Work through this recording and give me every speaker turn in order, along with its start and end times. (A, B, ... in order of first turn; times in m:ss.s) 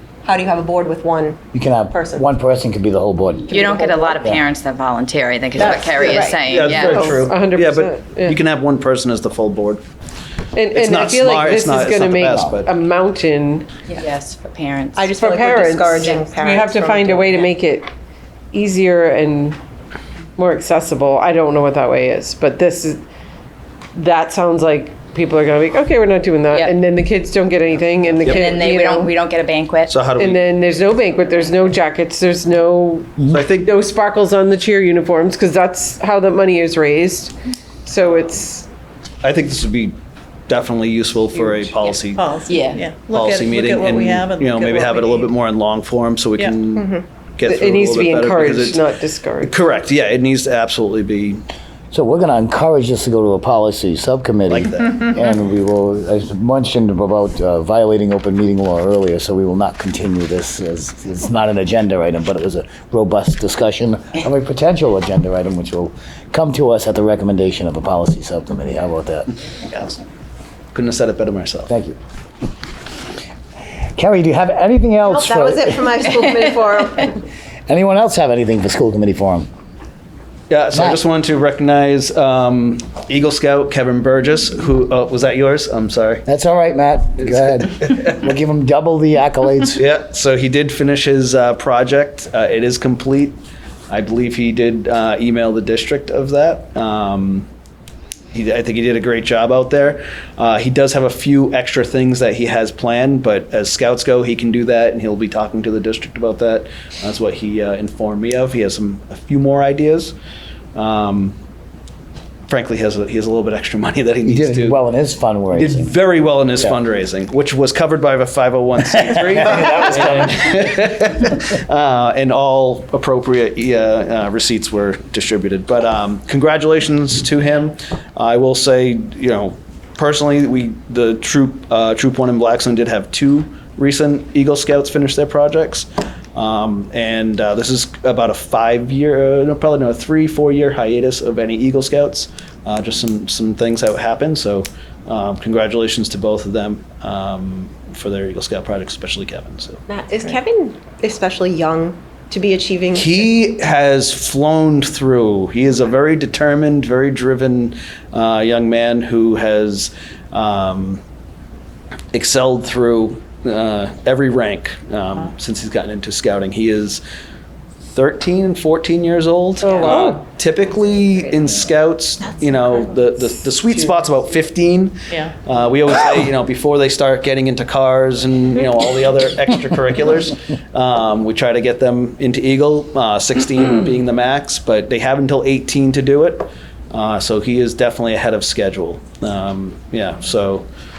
0:00.2-0:01.4 A
0:01.5-0:04.4 B
0:01.9-0:02.2 A
0:03.5-0:07.2 C
0:05.6-0:06.6 A
0:06.4-0:09.8 D
0:06.6-0:08.4 E
0:10.5-0:13.8 E
0:10.7-0:12.7 D
0:13.9-0:15.1 C
0:15.0-0:17.5 A
0:15.2-0:17.9 E
0:18.5-0:19.6 E
0:20.4-0:23.0 E
0:23.9-0:29.2 E
0:28.2-0:30.0 C
0:29.9-0:30.5 D
0:30.1-0:38.7 E
0:33.3-0:33.8 D
0:39.2-0:40.0 D
0:40.5-0:42.4 D
0:42.1-0:45.3 F
0:42.5-0:42.8 C
0:43.0-0:48.8 D
0:46.7-0:47.0 A
0:47.4-0:49.6 E
0:49.4-0:51.4 D
0:51.9-1:09.3 B
0:54.5-0:55.1 D
1:10.7-1:11.7 D
1:11.7-1:12.0 B
1:14.0-1:15.9 B
1:15.0-1:17.2 A
1:17.7-1:19.5 B
1:20.5-1:26.2 D
1:20.7-1:21.0 B
1:26.2-1:29.8 B
1:27.2-1:27.8 D
1:29.7-1:37.5 D
1:38.3-1:50.1 D
1:50.7-1:51.4 D
1:52.5-1:54.8 D
1:54.2-1:56.0 B
1:55.5-2:29.8 D
1:58.9-2:00.4 B
2:29.9-2:33.2 A
2:32.9-2:41.0 D
2:42.1-2:47.0 D
2:47.9-3:10.7 D
2:50.7-2:51.4 C